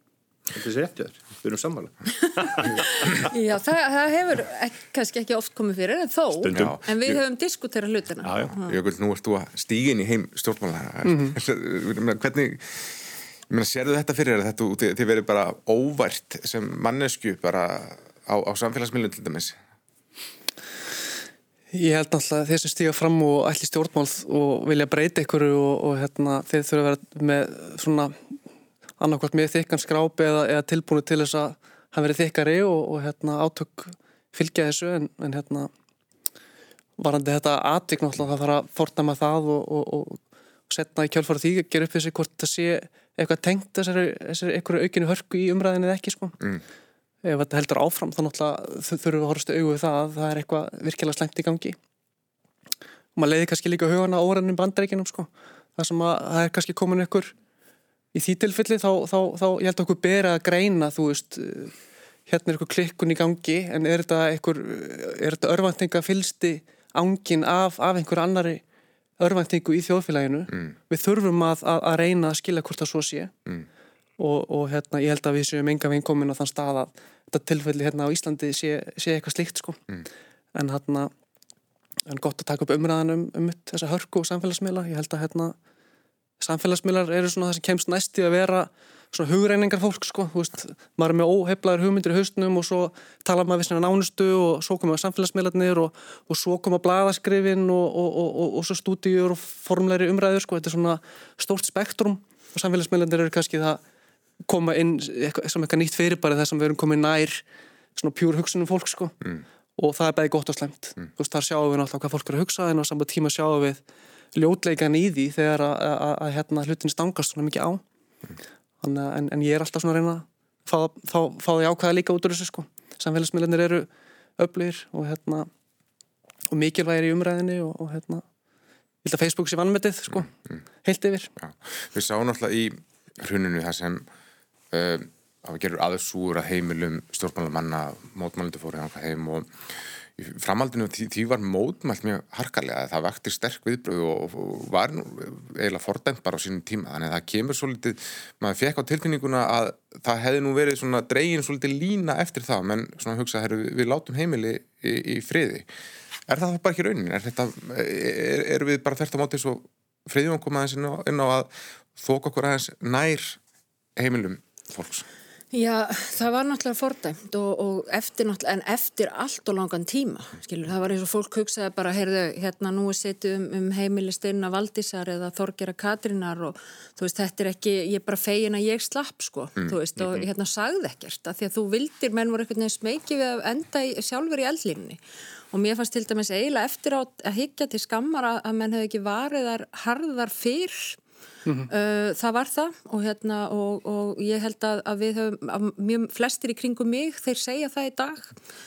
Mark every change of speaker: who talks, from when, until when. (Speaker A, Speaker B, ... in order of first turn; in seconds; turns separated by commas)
Speaker A: 0.5-3.2, Speaker B: 2.9-8.8, Speaker A: 6.4-6.8, Speaker C: 6.5-6.8, Speaker A: 8.2-8.5, Speaker C: 8.4-19.6, Speaker D: 11.0-11.3, Speaker D: 21.7-28.1, Speaker D: 29.0-35.7, Speaker D: 37.0-46.5, Speaker D: 47.2-51.8, Speaker D: 53.1-57.3, Speaker D: 58.1-61.7, Speaker D: 62.3-68.6, Speaker D: 69.2-73.3, Speaker D: 74.2-80.0, Speaker D: 80.5-81.1, Speaker D: 82.1-85.5, Speaker D: 86.4-103.8, Speaker D: 104.5-107.4, Speaker D: 108.0-113.8, Speaker D: 114.3-117.8, Speaker D: 118.8-125.5, Speaker D: 126.5-128.2, Speaker D: 129.0-130.3, Speaker D: 130.8-131.3, Speaker C: 131.4-134.1, Speaker C: 134.7-139.5, Speaker C: 140.2-155.7, Speaker C: 156.3-163.4, Speaker C: 163.9-165.1, Speaker B: 165.5-185.0, Speaker A: 180.0-180.2, Speaker B: 185.5-191.0, Speaker B: 191.7-198.3